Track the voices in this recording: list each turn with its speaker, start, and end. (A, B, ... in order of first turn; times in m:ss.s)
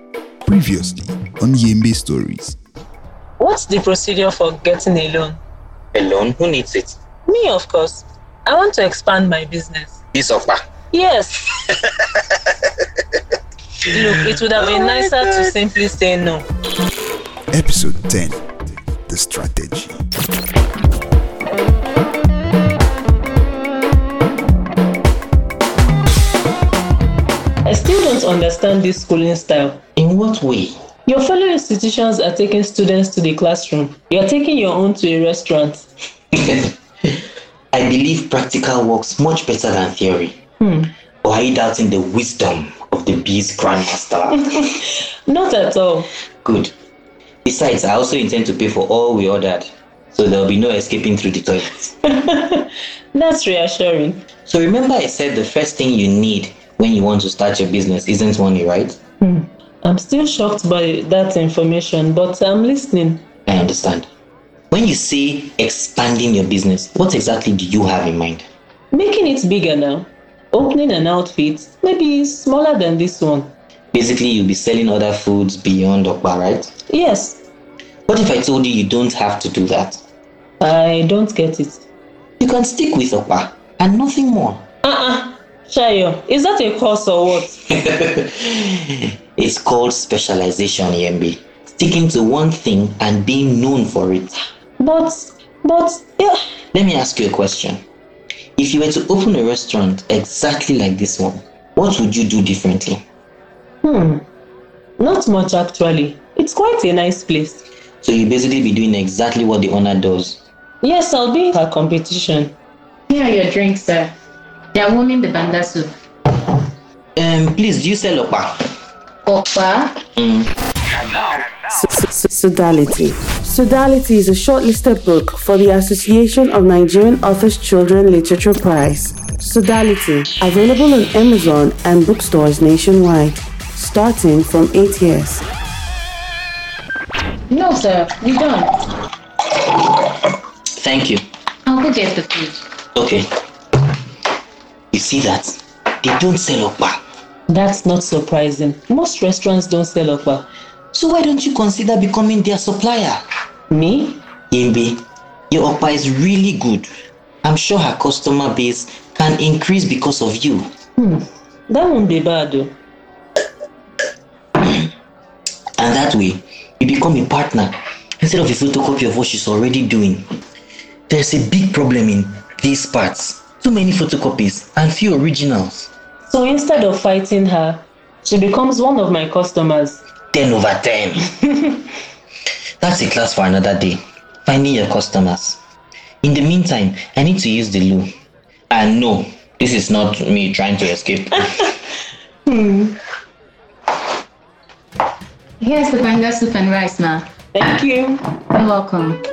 0:00.4-0:02.6 A
0:03.4-0:05.4 B
0:05.9-0:07.0 C
0:07.2-0:10.0 B
0:10.1-0:10.6 C
0:10.9-0:11.5 B
0:11.8-0:12.7 C
0:13.9-0:16.4 B
0:17.5-0:18.4 A
0:19.1-0:20.0 A
0:27.6-0:29.8 B
0:30.0-0:30.8 C
0:31.1-0:35.9 B
0:36.3-0:37.2 C
0:37.7-0:40.4 C
0:40.6-0:40.9 B
0:41.2-0:44.4 C
0:44.5-0:46.1 B
0:46.4-0:46.7 C
0:47.4-0:51.9 C
0:52.0-0:54.2 B
0:54.5-0:59.0 C
0:59.2-1:03.2 B
1:03.5-1:04.0 C
1:04.7-1:08.4 C
1:08.9-1:13.5 B
1:13.9-1:16.7 C
1:16.9-1:17.4 B
1:18.1-1:20.0 C
1:20.6-1:21.8 B
1:22.4-1:24.6 C
1:24.8-1:27.6 B
1:27.7-1:34.4 C
1:34.8-1:36.4 B
1:36.7-1:37.8 C
1:38.6-1:43.0 C
1:43.8-1:44.2 B
1:45.0-1:47.6 B
1:48.0-1:50.4 C
1:50.8-1:52.5 B
1:53.1-1:54.1 D
1:54.7-1:55.9 D
1:57.2-1:58.6 C
1:59.2-2:00.0 D
2:00.1-2:00.5 C
2:01.7-2:15.4 E
2:17.5-2:18.7 D
2:20.8-2:21.2 C
2:21.6-2:22.6 D
2:22.9-2:23.2 C
2:24.9-2:27.0 C
2:27.5-2:30.5 B
2:30.9-2:33.2 C
2:33.7-2:34.2 B
2:34.5-2:36.9 C
2:37.4-2:40.7 C
2:41.0-2:42.8 B
2:45.8-2:50.4 C
2:51.1-2:55.9 C
2:56.2-3:00.0 B
3:00.3-3:01.3 C
3:02.8-3:05.6 C
3:06.2-3:08.1 C
3:08.7-3:11.7 C
3:12.4-3:13.0 B
3:15.6-3:17.2 D
3:17.5-3:18.2 B
3:18.5-3:19.2 D